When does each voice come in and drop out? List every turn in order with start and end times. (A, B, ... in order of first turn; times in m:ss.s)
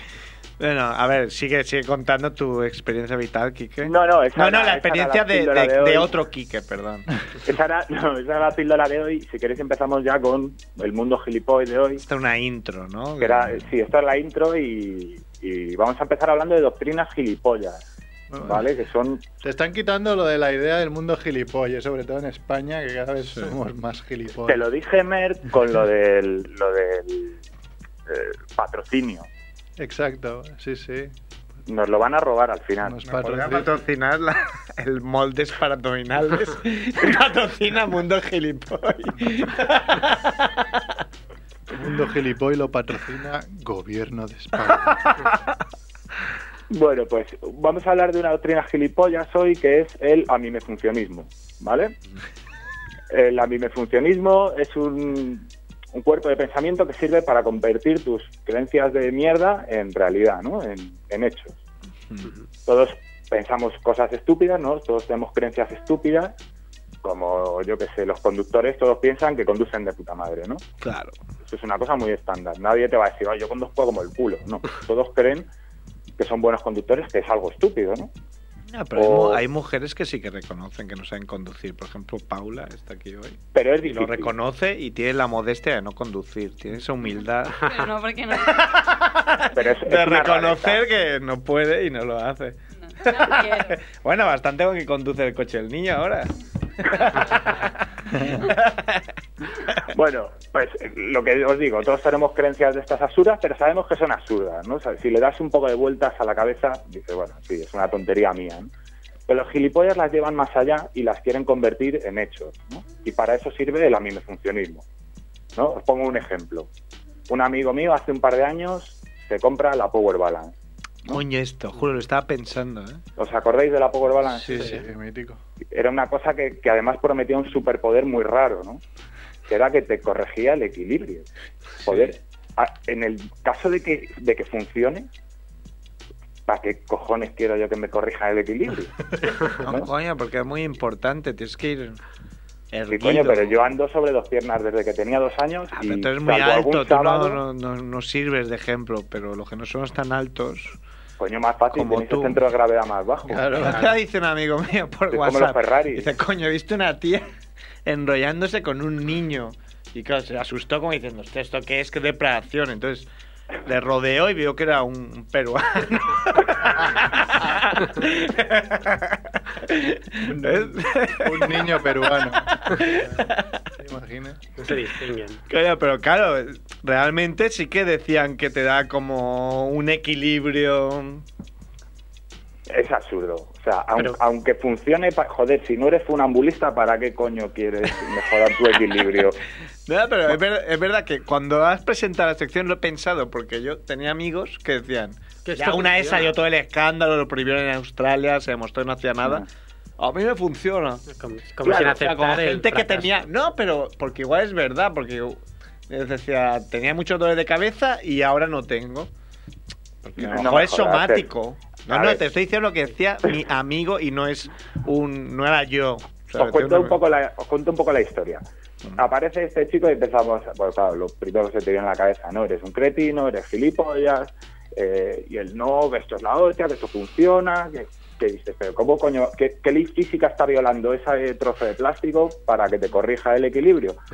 0:00.6-0:07.1 A
0:03.8-0:06.1 B
0:07.4-0:12.0 B
0:12.0-0:13.7 A
0:13.2-0:17.8 B
0:18.3-0:18.6 C
0:18.4-0:19.2 B
0:19.4-0:24.6 C
0:23.2-0:23.6 A
0:24.5-0:27.4 B
0:28.1-0:29.3 B
0:29.8-0:31.1 C
0:31.7-0:33.0 B
0:32.8-0:33.8 C
0:33.0-0:41.0 A
0:41.7-0:45.1 C
0:44.7-0:45.5 A
0:46.7-0:52.0 B
0:53.1-1:01.6 B
1:02.7-1:06.4 B
1:07.0-1:10.6 B
1:10.8-1:11.2 A
1:11.5-1:15.5 B
1:16.2-1:18.1 B
1:18.7-1:27.7 A
1:19.0-1:19.4 B
1:23.6-1:24.3 B
1:27.6-1:28.9 D
1:28.3-1:39.1 A
1:29.5-1:30.8 B
1:32.8-1:33.8 D
1:37.1-1:37.5 D
1:38.2-1:38.4 C
1:39.9-1:48.7 B
1:49.3-1:54.8 B
1:55.6-1:56.7 B
1:57.3-2:00.5 B
2:01.1-2:03.0 A
2:03.2-2:04.7 B
2:04.2-2:05.4 C
2:04.6-2:04.8 E
2:05.7-2:08.8 B
2:09.5-2:11.3 B
2:11.8-2:12.2 A
2:11.8-2:15.1 B
2:16.5-2:18.9 B
2:19.6-2:22.0 A
2:19.6-2:19.9 B
2:22.7-2:23.7 A
2:22.9-2:27.4 B
2:25.7-2:30.8 A
2:31.2-2:33.8 B
2:31.7-2:32.4 A
2:33.3-2:33.8 C
2:33.5-2:37.3 A
2:35.1-2:36.1 B
2:37.8-2:43.1 A
2:43.6-2:53.5 A
2:50.2-2:54.7 C
2:54.6-2:55.4 E
2:55.5-3:01.3 A
3:02.7-3:09.4 B
3:09.9-3:19.5 A
3:15.4-3:16.3 E
3:20.0-3:21.1 A
3:21.1-3:23.1 E
3:21.6-3:29.1 A
3:30.0-3:37.0 A
3:30.2-3:31.3 B
3:31.9-3:32.2 B
3:36.4-3:38.4 B
3:39.0-3:54.0 B